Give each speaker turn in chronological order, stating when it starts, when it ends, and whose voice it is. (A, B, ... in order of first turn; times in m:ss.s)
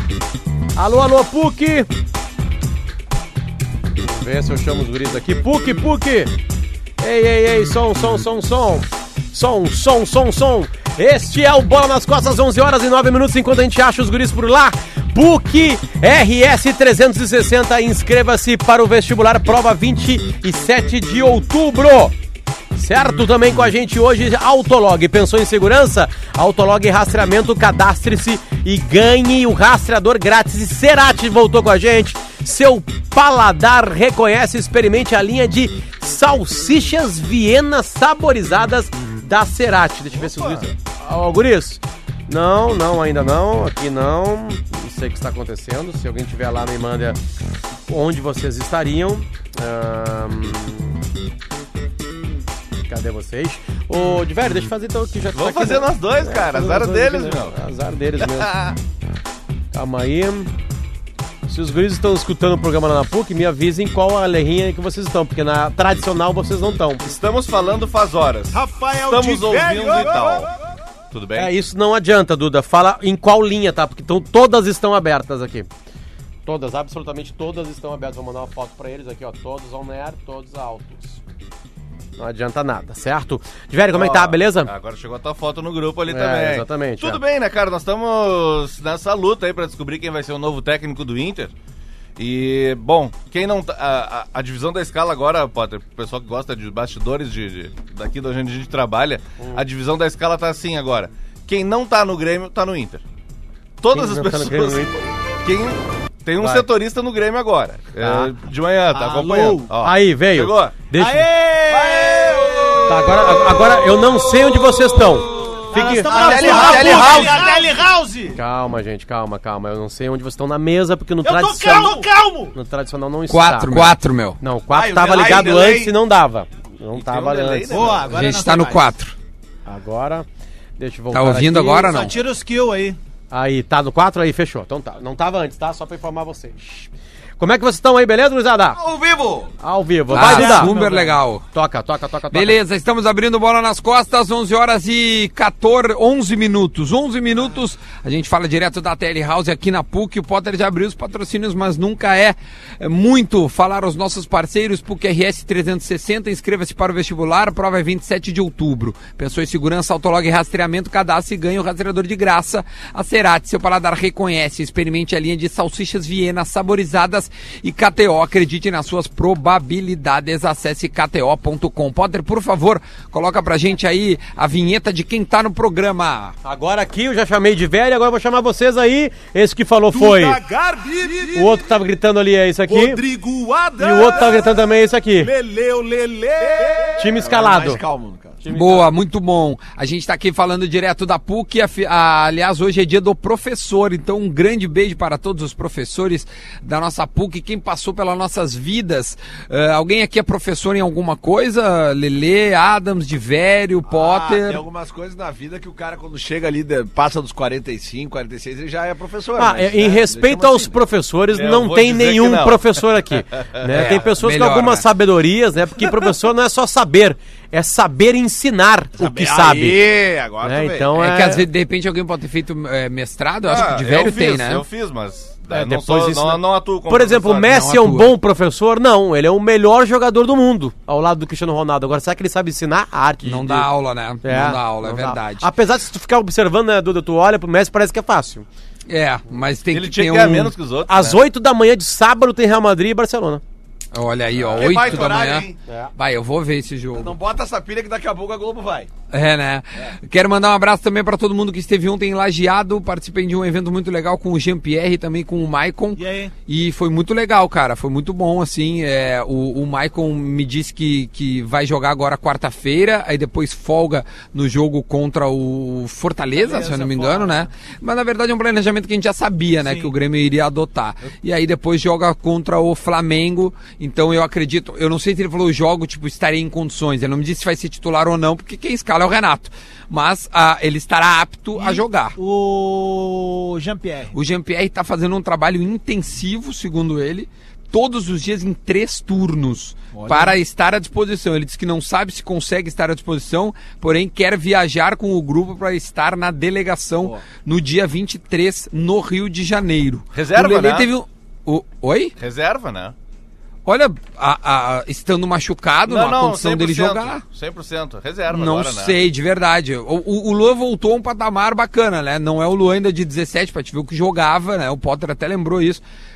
0:00.8-0:01.9 A
0:04.0-0:06.3 A
0:07.0-0:22.1 A
0:22.8-0:47.2 A
0:40.3-0:40.6 B
0:47.9-0:51.0 A
0:52.9-0:58.5 A
0:55.4-0:57.6 B
0:58.2-0:58.8 B
0:59.7-1:00.5 A
1:01.5-1:07.2 A
1:07.1-1:10.5 B
1:08.5-1:10.5 C
1:11.1-1:11.5 B
1:11.3-1:15.7 A
1:16.5-1:21.2 A
1:22.2-1:24.7 A
1:23.9-1:31.5 B
1:26.1-1:27.2 A
1:32.2-1:43.0 B
1:43.8-1:44.9 B
1:43.9-1:45.0 A
1:45.4-1:50.8 B
1:46.4-1:46.7 A
1:48.9-1:49.7 C
1:49.8-1:51.3 A
1:51.0-1:52.4 C
1:51.7-1:54.3 D
1:52.9-1:57.1 A
1:55.1-1:57.6 D
1:55.7-1:58.4 C
1:58.3-2:08.0 A
2:01.2-2:02.6 C
2:03.3-2:04.4 E
2:04.7-2:05.9 D
2:07.0-2:08.1 B
2:07.7-2:08.9 C
2:08.0-2:09.2 E
2:09.7-2:10.3 A
2:10.8-2:12.1 A
2:11.1-2:12.2 E
2:11.9-2:13.0 C
2:13.3-2:18.8 A
2:18.8-2:19.5 D
2:19.6-2:22.6 A
2:20.1-2:21.4 E
2:20.2-2:21.0 C
2:22.3-2:56.4 E
2:56.4-3:00.4 A
3:00.0-3:01.6 D
3:01.3-3:03.0 A
3:02.7-3:04.6 D
3:03.8-3:05.3 A
3:05.3-3:06.8 B
3:05.4-3:08.4 D
3:07.0-3:07.8 A
3:08.4-3:08.9 A
3:08.5-3:24.6 E
3:23.9-3:30.8 D
3:29.4-3:39.8 A
3:31.3-3:33.1 B
3:33.7-3:34.8 E
3:39.0-3:39.9 D
3:39.4-3:40.9 B
3:40.4-3:41.5 A
3:41.0-3:44.6 E
3:43.4-3:47.6 B
3:45.5-3:53.7 A
3:47.5-3:48.1 E
3:53.2-3:55.5 E
3:54.2-3:58.5 A
3:58.9-4:00.5 E
3:59.7-4:01.2 B
4:00.9-4:03.4 A
4:03.9-4:07.1 E
4:04.4-4:05.6 D
4:04.6-4:04.9 B
4:07.0-4:08.9 D
4:09.1-4:42.2 E
4:16.0-4:16.3 C
4:26.4-4:27.5 C
4:29.6-4:29.9 C
4:41.6-4:44.2 C
4:44.1-5:02.1 E
4:49.9-4:50.4 D
5:00.1-5:00.9 B
5:02.2-5:02.9 B
5:03.6-5:07.2 E
5:05.9-5:09.0 B
5:08.3-5:15.8 E